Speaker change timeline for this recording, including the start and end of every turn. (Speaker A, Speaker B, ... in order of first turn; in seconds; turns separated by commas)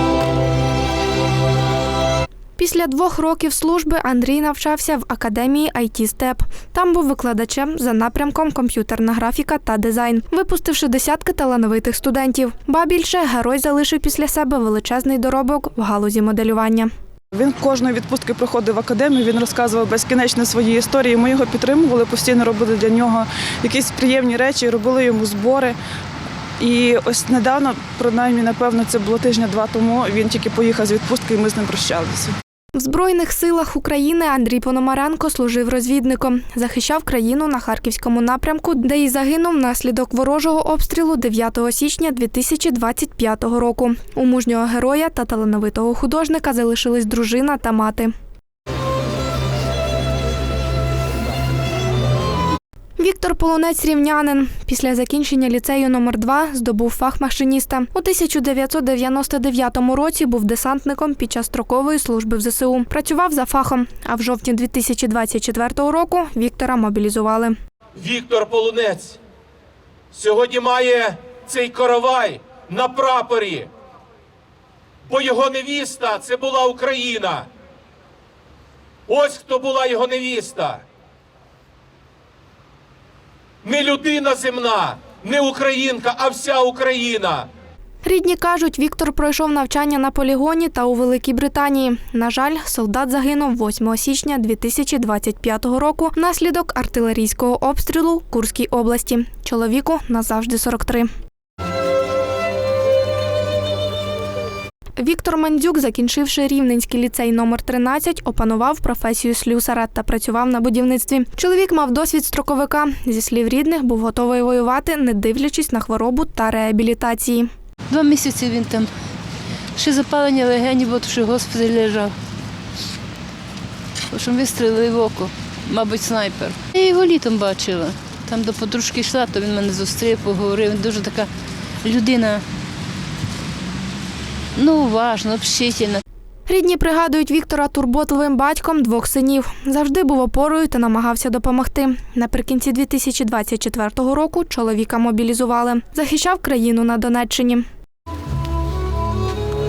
Speaker A: 2.6-16.9, Speaker B: 17.3-25.8, Speaker B: 26.6-32.3, Speaker A: 32.8-48.1, Speaker A: 53.0-67.6, Speaker C: 68.0-69.2, Speaker C: 70.1-73.7, Speaker C: 75.1-77.5, Speaker C: 79.1-80.8, Speaker C: 83.6-87.5, Speaker A: 88.0-101.1, Speaker A: 105.0-117.5, Speaker D: 117.9-118.9, Speaker D: 119.8-122.1, Speaker D: 124.1-131.3, Speaker D: 131.8-132.4, Speaker D: 134.6-136.0, Speaker A: 136.5-147.7